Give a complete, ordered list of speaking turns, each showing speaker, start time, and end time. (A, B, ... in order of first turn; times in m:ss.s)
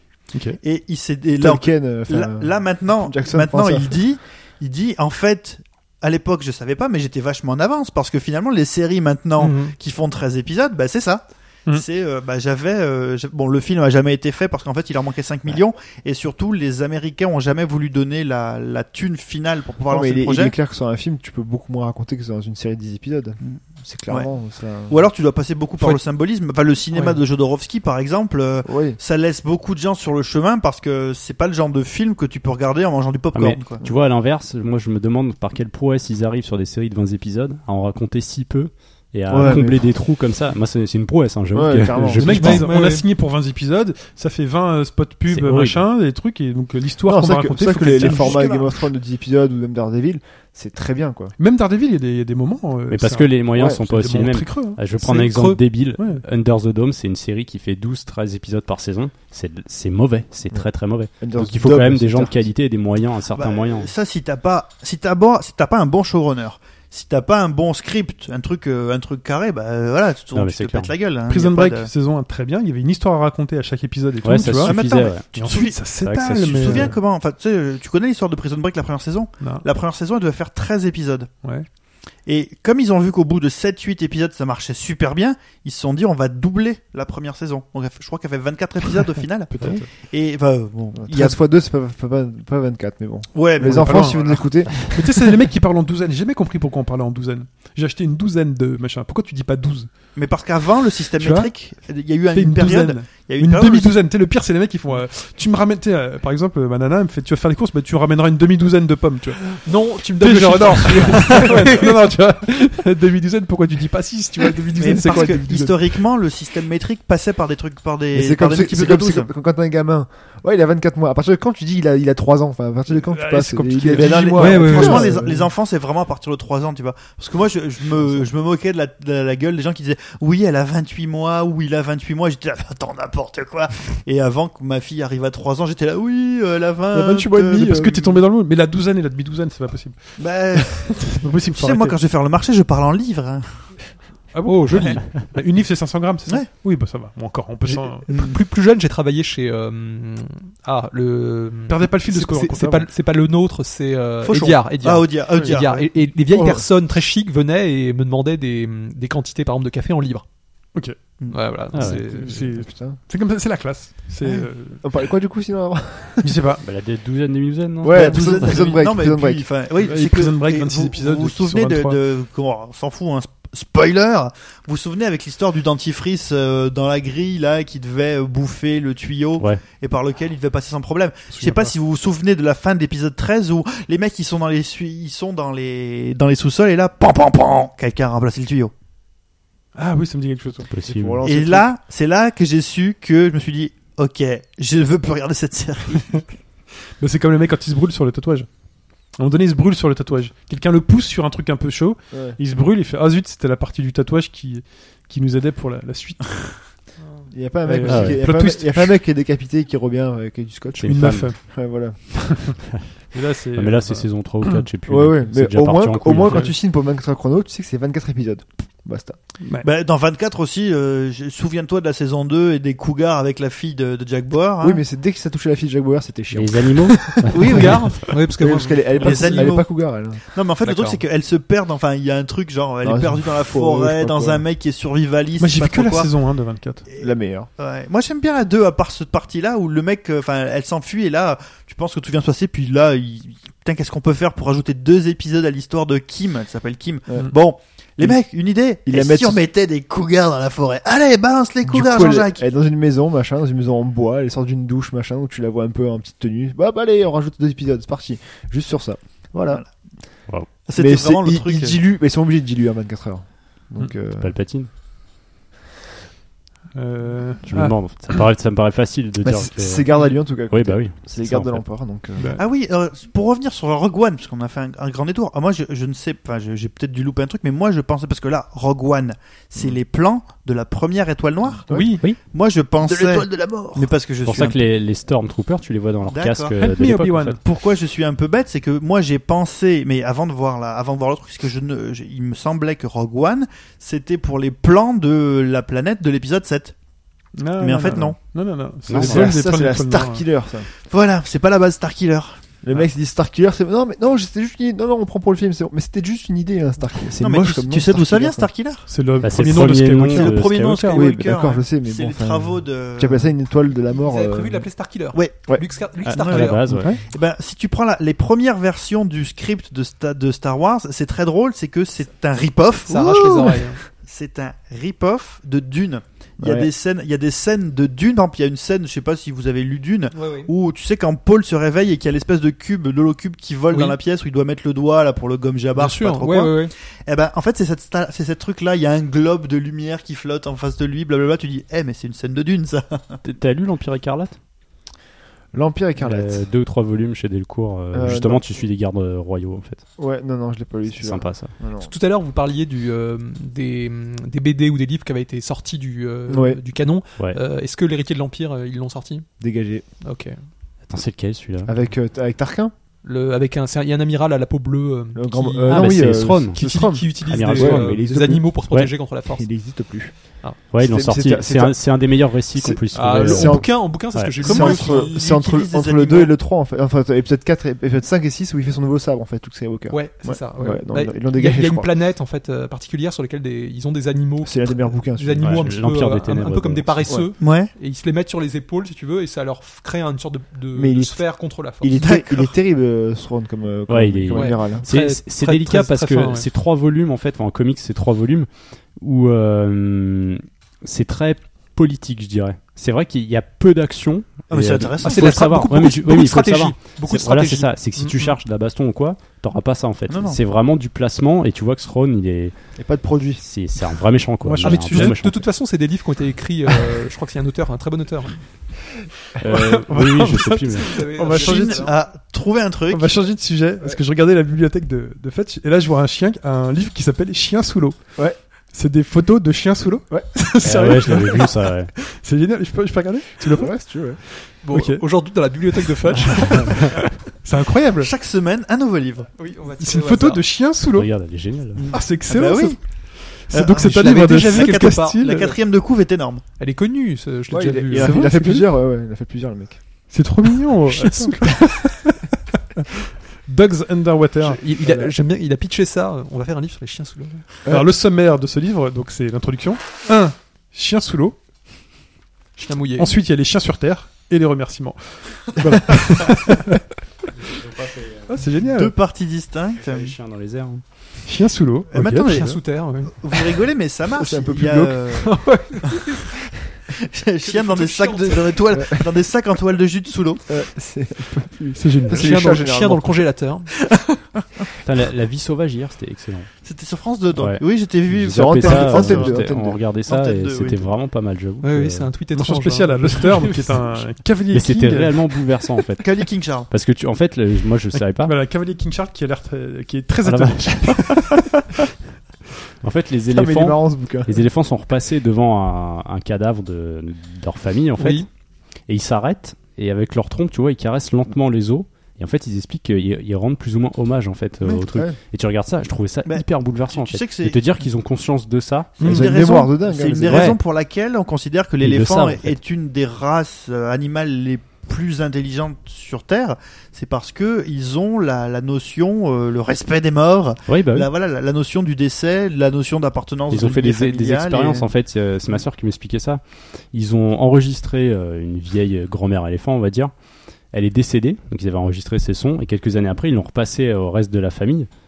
0:00.3-0:00.6 A
0:00.6-0:20.5 B
0:01.4-0:04.0 C
0:09.4-0:09.7 D
0:19.9-0:25.1 C
0:23.4-0:24.3 B
0:24.9-0:33.8 B
0:26.9-0:27.2 D
0:28.6-0:29.0 C
0:33.3-0:42.6 E
0:39.3-0:39.9 C
0:41.5-0:42.6 C
0:42.1-0:48.6 A
0:42.2-0:43.0 D
0:45.3-0:45.8 E
0:47.0-0:51.3 C
0:48.0-0:48.6 B
0:51.4-0:54.8 A
0:52.9-1:03.9 E
0:55.0-0:55.6 D
0:56.0-0:56.2 A
1:01.2-1:02.4 C
1:03.3-1:11.9 B
1:10.3-1:10.9 E
1:11.3-1:16.9 A
1:14.2-1:16.9 E
1:14.5-1:21.3 B
1:19.4-1:19.6 A
1:21.4-1:21.7 A
1:22.2-1:31.4 B
1:29.5-1:29.9 A
1:30.9-1:34.9 C
1:33.3-1:34.9 B
1:33.6-1:39.9 A
1:40.1-1:44.0 B
1:41.2-1:41.5 A
1:42.3-1:49.6 A
1:49.6-1:52.1 D
1:50.2-1:56.0 A
1:54.8-1:59.3 B
1:54.8-1:55.4 D
1:58.1-2:05.5 C
2:02.9-2:05.1 A
2:03.9-2:18.2 B
2:04.4-2:05.1 D
2:16.9-2:22.0 A
2:17.5-2:17.8 C
2:20.2-2:23.7 B
2:24.3-2:28.1 A
2:24.4-2:25.0 D
2:27.6-2:40.2 D
2:28.1-2:28.4 B
2:31.7-2:32.9 A
2:34.2-2:35.9 B
2:36.3-2:36.6 C
2:41.3-2:42.4 D
2:41.7-2:42.0 E
2:41.8-2:44.8 A
2:42.3-2:43.0 C
2:44.8-2:46.5 C
2:46.2-2:46.6 A
2:46.6-2:48.6 E
2:47.8-2:49.4 C
2:47.8-3:08.7 B
2:49.8-2:52.0 A
3:01.3-3:01.7 A
3:09.7-3:10.7 A
3:10.7-3:11.2 E
3:10.8-3:11.7 C
3:11.2-3:16.3 B
3:17.0-3:18.5 A
3:19.2-3:26.7 A
3:22.1-3:22.4 C
3:27.3-3:32.6 C
3:27.6-3:29.0 A
3:27.8-3:28.3 E
3:30.8-3:31.3 E
3:30.8-3:31.4 A
3:33.1-3:34.6 A
3:33.5-3:36.5 E
3:34.8-3:39.2 C
3:36.2-3:36.5 A
3:39.6-3:44.8 B
3:44.6-3:50.2 C
3:46.3-3:47.9 E
3:47.3-3:49.5 D
3:49.0-3:49.7 B
3:50.3-3:56.1 B
3:52.8-3:54.4 C
3:55.4-3:56.8 A
3:56.9-4:12.4 B
3:57.0-3:57.5 C
4:08.8-4:09.4 C
4:11.6-4:19.6 C
4:20.6-4:21.8 B
4:20.8-4:24.3 C
4:24.1-4:24.7 E
4:26.7-4:27.9 A
4:27.4-4:31.6 E
4:29.2-4:32.4 C
4:32.2-4:32.4 A
4:32.4-4:44.6 B
4:41.7-4:42.0 C
4:41.7-4:42.1 A
4:42.8-4:43.9 C
4:44.2-4:47.4 E
4:46.1-4:46.5 B
4:46.6-4:47.4 A
4:47.4-4:56.7 B
4:57.4-5:00.2 A
4:57.6-4:58.2 B
4:58.9-4:59.3 E
4:58.9-5:00.7 C
5:00.8-5:02.4 B
5:02.6-5:08.5 C
5:07.2-5:08.9 B
5:08.9-5:11.0 A
5:09.2-5:11.1 E
5:10.1-5:13.3 B
5:10.9-5:14.7 C
5:13.9-5:16.6 D
5:15.1-5:15.4 B
5:16.0-5:16.9 E
5:16.1-5:43.2 B
5:16.7-5:17.0 C
5:16.7-5:17.0 A
5:22.9-5:23.8 D
5:26.4-5:26.7 C
5:30.1-5:30.5 D
5:33.7-5:34.0 D
5:35.8-5:36.7 D
5:43.2-5:44.4 E
5:45.5-5:46.4 C
5:46.0-5:49.8 E
5:47.9-5:48.4 C
5:50.0-5:51.9 C
5:50.9-5:51.5 E
5:51.8-5:59.3 D
5:56.3-5:56.6 C
5:59.4-5:59.8 C
6:00.0-6:00.4 D
6:00.9-6:01.8 E
6:01.6-6:02.7 C
6:03.0-6:09.5 D
6:05.1-6:08.5 C
6:05.7-6:06.6 E
6:07.3-6:08.1 E
6:09.2-6:13.8 C
6:10.7-6:14.4 E
6:12.9-6:15.3 D
6:14.4-6:21.9 C
6:14.4-6:16.3 B
6:19.9-6:32.0 D
6:24.4-6:25.7 C
6:25.4-6:27.2 E
6:27.4-6:27.7 B
6:30.7-6:31.2 C
6:31.8-6:34.8 C
6:32.0-6:32.5 B
6:33.9-6:52.5 E
6:34.3-6:36.5 D
6:44.5-6:45.4 B
6:45.0-6:48.3 D
6:50.1-6:50.4 B
6:52.8-6:53.4 C
6:53.4-6:55.4 E
6:54.4-6:55.2 A
6:54.6-6:58.4 D
6:59.4-7:01.9 A
6:59.4-7:01.0 E
7:00.7-7:02.0 D
7:01.3-7:03.2 B
7:02.9-7:08.0 A
7:08.7-7:15.0 A
7:10.6-7:11.9 E
7:13.4-7:14.2 C
7:14.6-7:17.0 D
7:15.8-7:18.1 A
7:18.0-7:19.3 B
7:19.4-7:20.4 D
7:19.8-7:21.2 A
7:20.9-7:21.8 E
7:21.8-7:23.0 B
7:21.9-7:25.5 A
7:23.5-7:26.4 B
7:23.8-7:25.5 D
7:26.6-7:28.4 D
7:27.5-7:29.8 C
7:27.9-7:28.7 A
7:30.1-7:32.2 A
7:30.9-7:31.6 D
7:33.4-7:34.6 A
7:34.4-7:37.4 D
7:34.8-7:35.1 C
7:37.7-7:41.4 A
7:42.6-7:43.2 D
7:43.0-7:46.8 A
7:47.4-7:48.3 E
7:48.3-7:48.9 A
7:48.6-7:50.1 B
7:49.8-7:50.8 E
7:51.2-7:52.6 A
7:51.9-7:56.0 B
7:52.2-7:53.3 D
7:54.1-7:55.0 C
7:55.2-7:56.2 D
7:56.9-8:00.4 B
7:57.4-7:58.6 D
7:58.7-7:59.1 C
8:00.5-8:03.2 C
8:01.7-8:02.6 A
8:02.1-8:03.7 D
8:03.9-8:04.2 B
8:04.8-8:06.5 E
8:06.6-8:09.4 B
8:07.3-8:12.1 E
8:08.2-8:09.8 C
8:10.1-8:10.9 B
8:11.6-8:14.0 D
8:12.3-8:15.3 A
8:14.5-8:18.4 E
8:16.0-8:16.7 B
8:17.9-8:21.4 A
8:20.2-8:21.4 E
8:22.8-8:28.3 E
8:23.3-8:24.4 C
8:28.0-8:28.3 D
8:28.9-8:39.2 E
8:34.9-8:35.2 C
8:36.2-8:37.6 B
8:39.0-8:54.8 B
8:39.0-8:40.6 C
8:39.0-8:39.3 A
8:40.2-8:40.6 E
8:41.8-8:42.6 E
8:50.7-8:51.1 E
8:53.5-9:00.1 E
9:00.7-9:04.9 E